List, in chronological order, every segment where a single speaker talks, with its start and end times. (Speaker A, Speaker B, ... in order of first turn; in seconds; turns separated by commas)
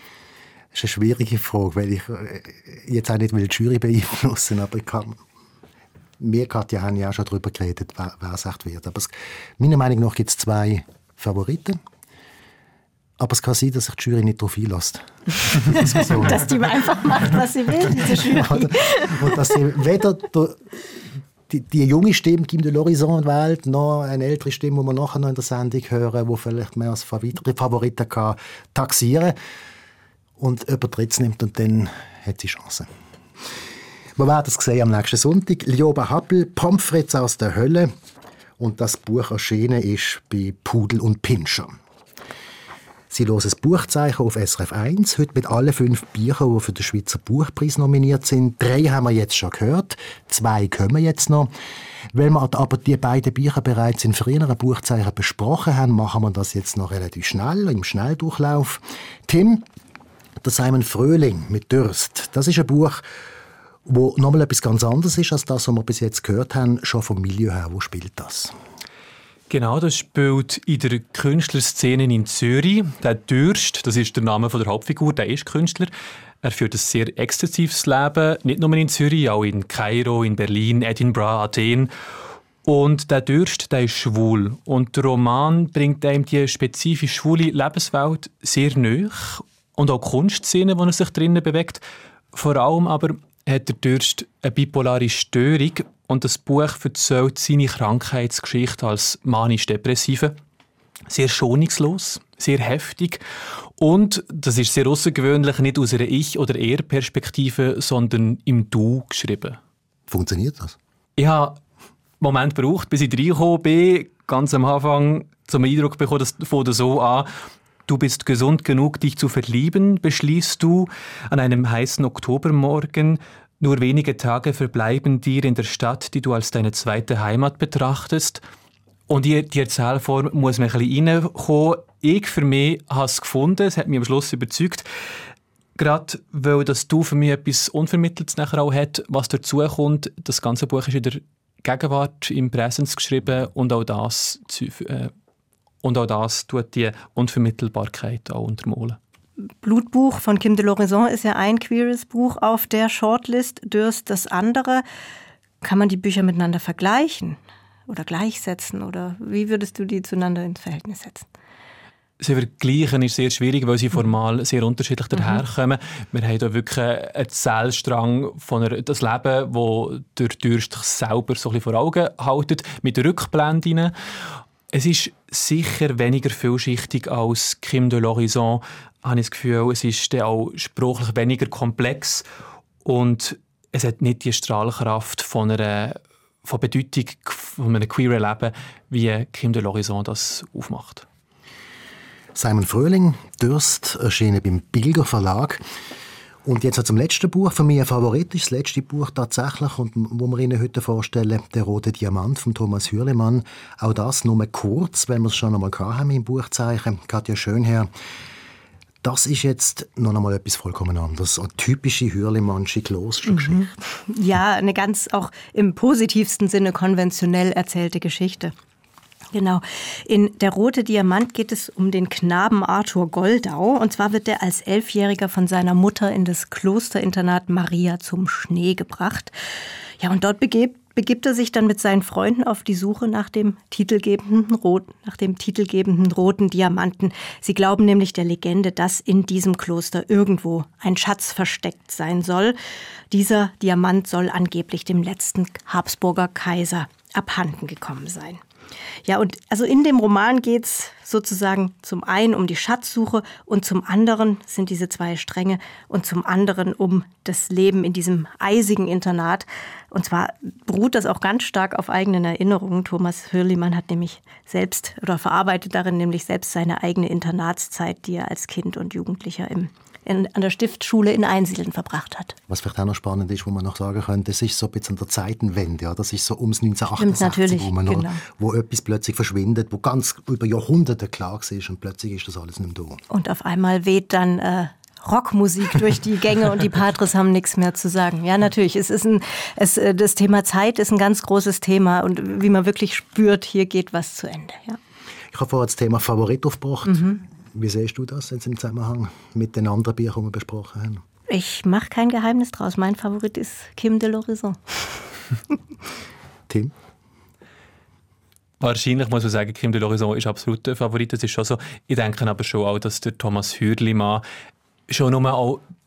Speaker A: 0.7-5.2, Speaker A: 6.2-11.8, Speaker A: 13.2-16.5, Speaker B: 15.7-19.4, Speaker A: 18.1-20.6, Speaker A: 21.5-29.4, Speaker A: 30.4-32.9, Speaker A: 34.2-37.9, Speaker A: 38.6-41.8, Speaker A: 43.1-51.5, Speaker A: 52.1-59.6, Speaker A: 60.4-63.0, Speaker A: 63.9-68.5, Speaker C: 69.5-75.9, Speaker C: 76.4-81.9, Speaker C: 82.6-91.8, Speaker C: 92.3-100.3, Speaker C: 101.1-103.2, Speaker C: 103.8-109.6, Speaker A: 110.1-110.8, Speaker C: 111.2-111.6, Speaker C: 112.2-117.3, Speaker C: 117.9-128.4, Speaker C: 129.1-134.8, Speaker C: 135.8-145.1, Speaker C: 145.8-149.0, Speaker B: 149.6-154.8, Speaker B: 155.6-161.3, Speaker C: 162.2-173.9, Speaker C: 174.7-182.2, Speaker C: 182.8-191.1, Speaker A: 192.3-195.6, Speaker A: 196.4-207.9, Speaker A: 209.0-213.7, Speaker B: 213.3-218.5, Speaker B: 219.3-229.3, Speaker B: 230.0-242.6, Speaker B: 243.1-248.4, Speaker B: 249.0-272.4, Speaker A: 272.5-283.0, Speaker B: 277.0-278.2, Speaker B: 283.1-294.8, Speaker A: 295.3-301.0, Speaker B: 301.3-304.9, Speaker C: 308.6-314.2, Speaker C: 314.9-315.6